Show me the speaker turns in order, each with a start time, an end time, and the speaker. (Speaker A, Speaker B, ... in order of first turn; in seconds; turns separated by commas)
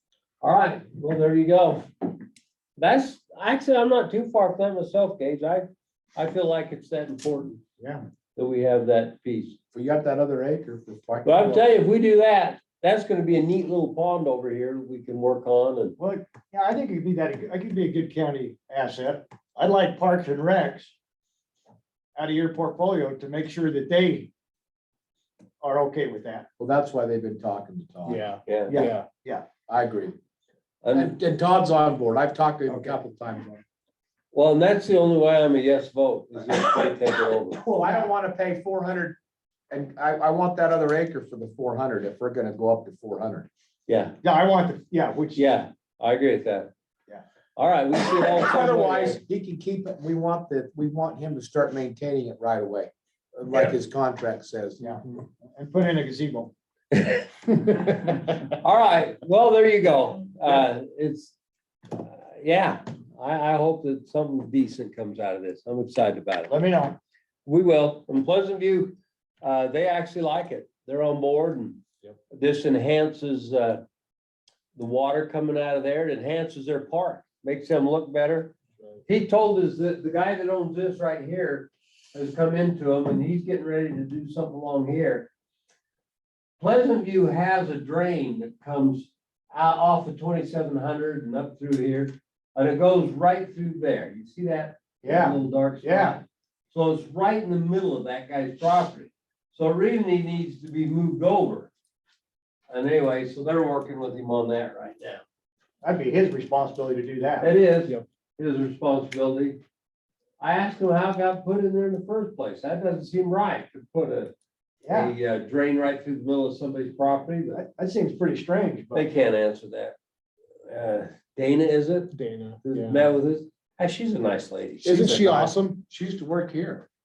Speaker A: 0.4-2.1, Speaker A: 2.8-7.6, Speaker A: 8.4-9.6, Speaker B: 9.7-11.8, Speaker A: 11.2-16.0, Speaker C: 16.0-20.9, Speaker C: 22.2-24.3, Speaker C: 25.6-26.5, Speaker B: 26.6-28.2, Speaker D: 28.1-29.1, Speaker A: 28.5-28.8, Speaker C: 28.7-29.5, Speaker B: 29.7-30.2, Speaker A: 30.8-31.2, Speaker B: 30.9-33.6, Speaker C: 32.7-33.0, Speaker A: 34.3-37.6, Speaker B: 37.5-39.2, Speaker C: 37.8-38.1, Speaker B: 39.7-43.5, Speaker A: 43.9-44.2, Speaker C: 44.2-45.6, Speaker A: 45.4-46.7, Speaker A: 47.6-49.2, Speaker B: 48.3-55.0, Speaker C: 54.8-56.5, Speaker A: 56.9-61.4, Speaker A: 61.9-66.5, Speaker C: 66.5-67.0, Speaker A: 67.5-71.8, Speaker A: 72.3-73.8, Speaker A: 74.8-78.6, Speaker A: 79.1-85.3, Speaker A: 86.6-101.7, Speaker C: 95.0-96.2, Speaker A: 102.7-105.2, Speaker C: 105.8-107.5, Speaker A: 107.4-109.6, Speaker A: 110.4-114.3, Speaker C: 114.8-115.1, Speaker A: 114.9-117.6, Speaker C: 117.5-119.1, Speaker A: 118.9-120.0, Speaker A: 120.7-125.5, Speaker D: 122.1-123.1, Speaker D: 124.8-125.8, Speaker B: 125.9-126.9